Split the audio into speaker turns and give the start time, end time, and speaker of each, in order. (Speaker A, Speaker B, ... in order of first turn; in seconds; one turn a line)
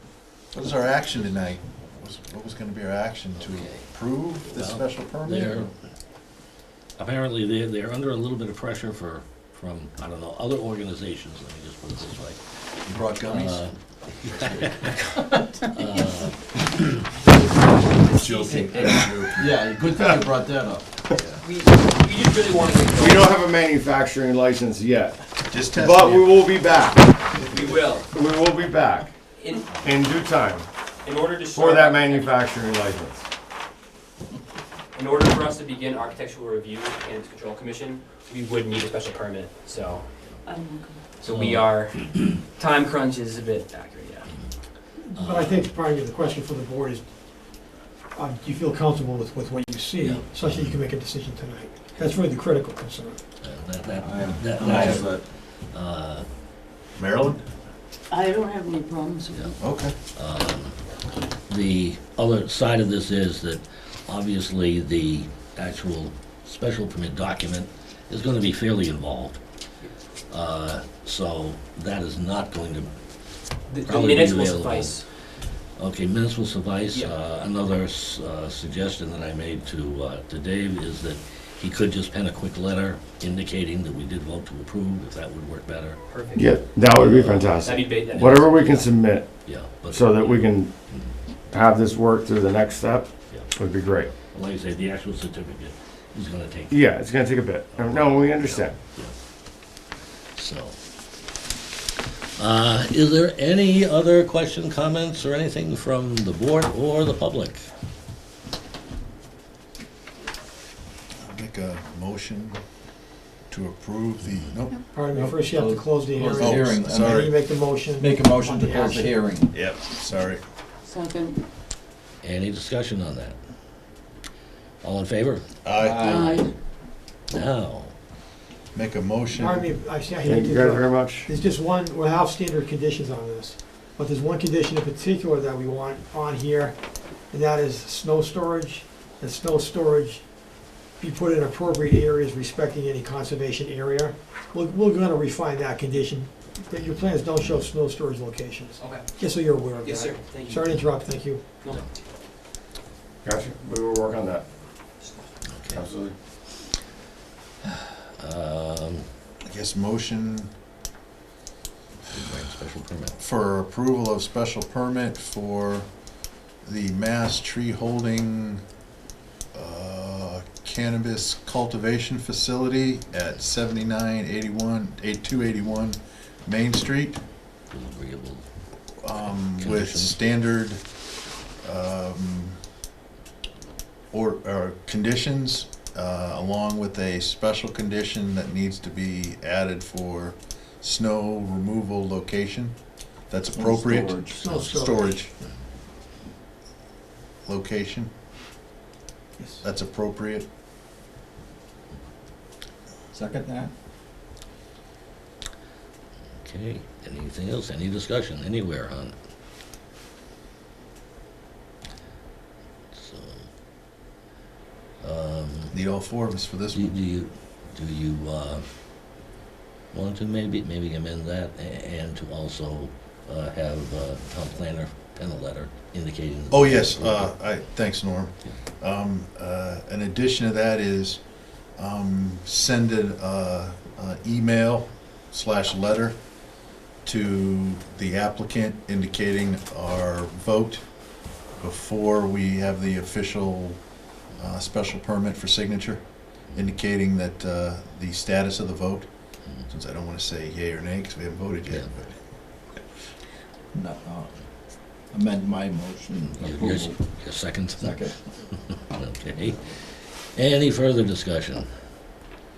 Speaker A: 0.5-5.7
Speaker B: 3.4-3.9
Speaker B: 4.4-5.7
Speaker B: 7.0-12.4
Speaker A: 12.9-13.6
Speaker C: 12.9-13.6
Speaker B: 13.3-16.4
Speaker C: 14.3-15.4
Speaker C: 18.0-20.9
Speaker A: 18.1-19.7
Speaker D: 21.4-23.3
Speaker E: 22.9-29.1
Speaker A: 25.5-26.5
Speaker D: 27.4-28.1
Speaker D: 29.4-29.8
Speaker E: 29.7-30.6
Speaker D: 31.0-32.4
Speaker E: 31.5-33.2
Speaker D: 34.9-40.0
Speaker F: 40.4-41.0
Speaker D: 41.2-44.3
Speaker B: 41.2-42.3
Speaker G: 45.0-47.1
Speaker B: 45.1-45.7
Speaker G: 48.1-53.2
Speaker B: 50.0-50.8
Speaker B: 53.4-56.3
Speaker C: 53.9-55.2
Speaker A: 54.6-55.0
Speaker A: 57.0-57.4
Speaker F: 58.1-59.5
Speaker A: 59.6-60.0
Speaker B: 60.1-60.8
Speaker B: 61.5-69.4
Speaker B: 70.3-72.9
Speaker D: 73.7-75.0
Speaker B: 73.8-75.0
Speaker B: 75.8-86.0
Speaker D: 76.9-77.2
Speaker D: 86.1-86.5
Speaker E: 86.3-90.8
Speaker B: 86.9-88.3
Speaker D: 87.6-88.9
Speaker B: 89.3-91.1
Speaker E: 91.5-94.1
Speaker B: 94.2-96.9
Speaker E: 96.7-98.8
Speaker B: 97.7-99.1
Speaker B: 100.3-100.7
Speaker B: 102.4-107.6
Speaker A: 111.2-112.6
Speaker A: 113.5-114.8
Speaker G: 114.9-119.2
Speaker C: 115.1-117.3
Speaker A: 116.3-117.3
Speaker C: 118.0-119.5
Speaker A: 119.5-120.4
Speaker F: 120.8-121.4
Speaker B: 122.2-123.4
Speaker B: 124.8-125.4
Speaker A: 125.6-126.2
Speaker C: 125.8-126.5
Speaker F: 126.0-126.5
Speaker B: 127.3-127.9
Speaker A: 128.7-129.7
Speaker G: 129.3-136.8
Speaker E: 130.2-131.3
Speaker G: 137.3-140.2
Speaker G: 141.0-151.4
Speaker D: 148.8-149.0
Speaker D: 149.8-150.6
Speaker D: 151.6-151.9
Speaker E: 153.2-154.4
Speaker B: 155.5-155.8
Speaker E: 155.7-156.1
Speaker B: 158.2-159.1
Speaker A: 159.4-160.5
Speaker B: 162.1-163.2
Speaker A: 163.2-165.9
Speaker A: 166.6-168.6
Speaker A: 169.5-177.2
Speaker B: 177.7-178.4
Speaker A: 179.0-180.8
Speaker B: 179.2-180.2
Speaker A: 181.6-182.6
Speaker A: 184.1-192.7
Speaker A: 193.3-195.3
Speaker C: 193.5-194.4
Speaker G: 194.3-195.2
Speaker A: 197.4-198.1
Speaker G: 199.4-199.6
Speaker A: 199.6-200.4
Speaker C: 203.1-203.7
Speaker B: 206.4-209.1
Speaker B: 212.9-213.4
Speaker B: 215.0-215.7
Speaker A: 215.7-216.9
Speaker B: 216.7-218.6
Speaker B: 219.9-227.3
Speaker A: 226.5-231.2
Speaker A: 231.8-236.2
Speaker A: 237.0-240.8
Speaker A: 241.6-243.8
Speaker A: 244.4-252.2
Speaker C: 253.7-254.3
Speaker C: 255.1-257.0
Speaker B: 256.4-258.1
Speaker C: 257.7-258.1
Speaker B: 258.9-259.6
Speaker B: 260.3-261.7